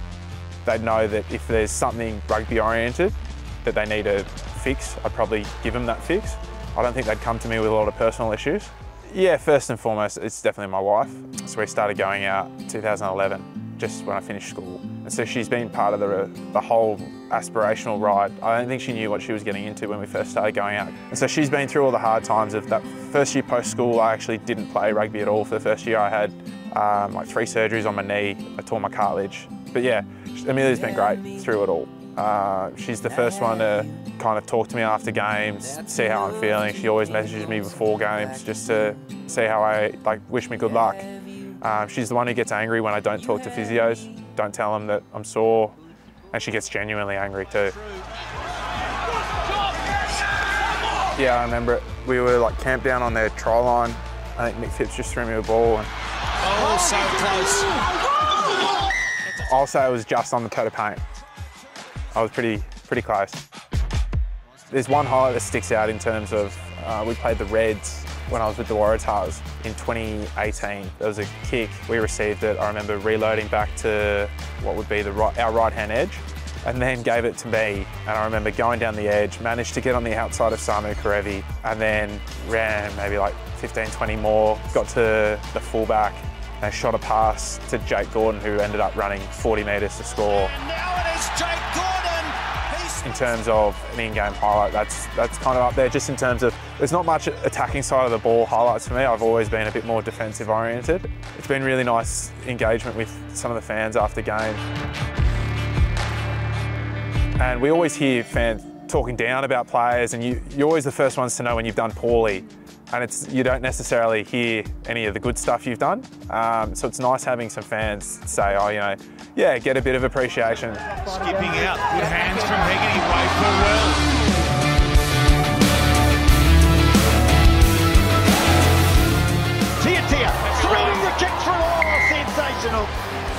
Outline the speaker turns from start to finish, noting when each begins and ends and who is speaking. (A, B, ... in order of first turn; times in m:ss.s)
0:00.6-0:45.8 A
0:46.3-0:47.8 A
0:51.1-0:55.9 A
0:56.4-0:57.8 B
0:59.3-1:01.0 A
1:02.1-1:03.4 A
1:04.7-1:30.6 A
1:30.6-1:32.9 B
1:31.6-1:32.0 C
1:33.0-1:44.6 A
1:47.4-2:01.2 A
2:01.1-2:04.1 B
2:09.8-2:12.9 C